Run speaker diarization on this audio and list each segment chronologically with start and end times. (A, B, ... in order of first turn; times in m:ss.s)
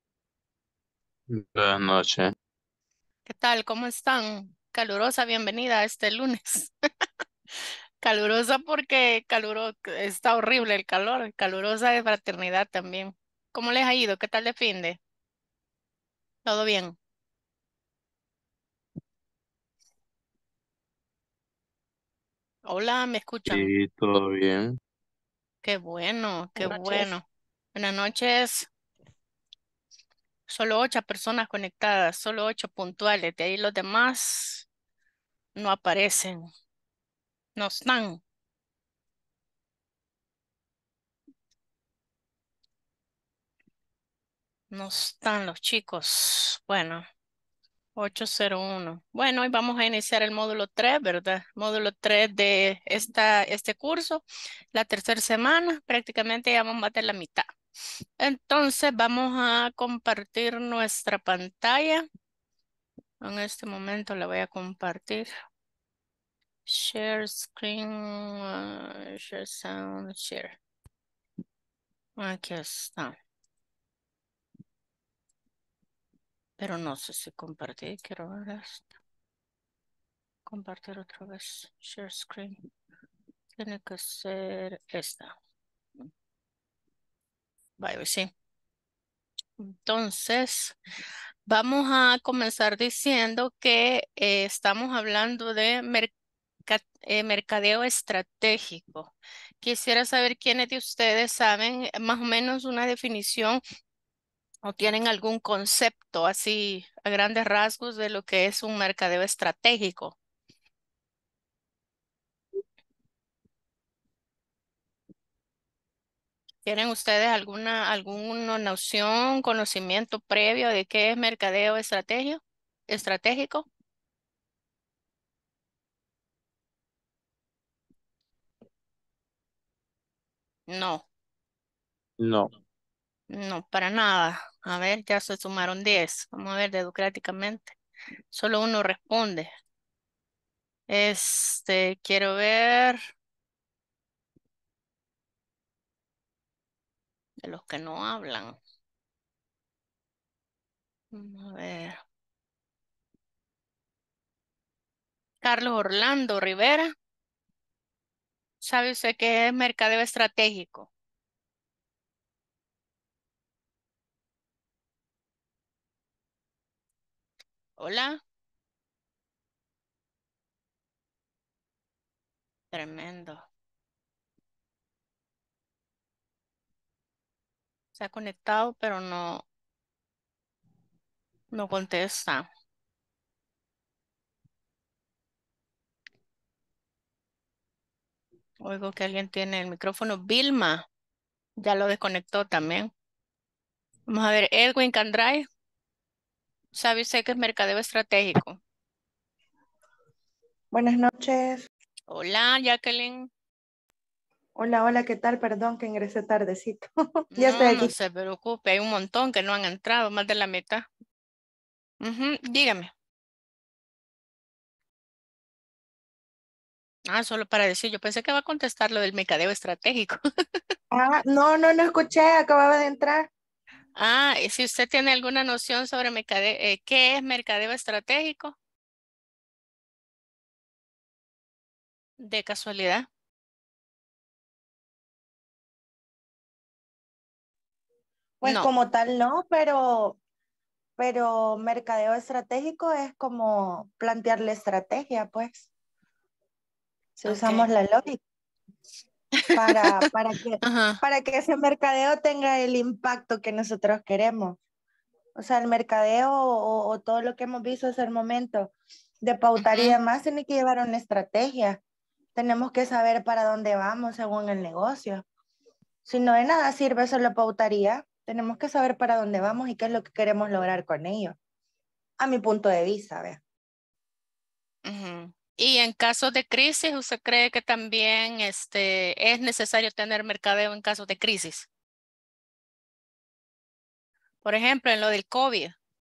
0:01.3-0:02.3 A
0:03.2-0:06.7 B
0:08.0-0:15.0 B
0:16.4-0:17.0 B
0:22.6-0:23.7 B
0:23.5-0:24.7 A
0:25.6-0:28.7 B
0:30.5-0:34.6 B
0:35.6-0:36.5 B
0:37.6-0:38.2 B
0:44.7-0:47.0 B
0:48.0-0:54.2 B
0:54.7-0:57.5 B
0:58.2-1:02.0 B
1:03.2-1:05.3 B
1:06.7-1:10.6 B
1:12.2-1:13.1 B
1:16.6-1:18.8 B
1:20.5-1:22.6 B
1:23.6-1:25.3 B
1:27.8-1:28.3 B
1:29.6-1:30.8 B
1:31.5-1:36.1 B
1:36.7-1:43.6 B
1:44.6-1:50.2 B
1:56.6-2:03.7 B
2:10.7-2:11.0 B
2:12.2-2:12.5 A
2:13.3-2:17.8 B
2:18.3-2:19.5 B
2:20.9-2:23.0 B
2:27.4-2:28.6 B
2:31.1-2:32.0 B
2:35.4-2:36.9 B
2:38.6-2:40.9 B
2:47.8-2:48.2 B
2:52.7-2:53.4 B
2:58.0-2:59.4 B
3:01.5-3:02.5 B
3:08.6-3:10.8 B
3:11.6-3:12.9 B
3:14.1-3:15.4 B
3:16.7-3:18.6 B
3:20.7-3:21.6 C
3:22.1-3:23.3 B
3:24.6-3:27.9 C
3:27.3-3:30.8 B
3:32.0-3:32.9 B
3:37.1-3:40.2 B
3:40.9-3:43.3 C
3:44.0-3:48.5 B
3:52.2-3:53.0 B
3:58.4-4:00.2 C
3:58.4-3:58.7 B
4:01.0-4:05.7 C
4:07.2-4:07.7 B
4:07.2-4:08.2 C
4:09.4-4:10.0 B
4:09.5-4:14.6 C
4:10.6-4:11.0 B
4:15.4-4:21.8 C
4:19.6-4:20.0 B
4:22.4-4:25.2 C
4:26.0-4:31.4 C
4:32.2-4:33.4 C
4:34.8-4:41.7 B
4:44.4-4:45.8 B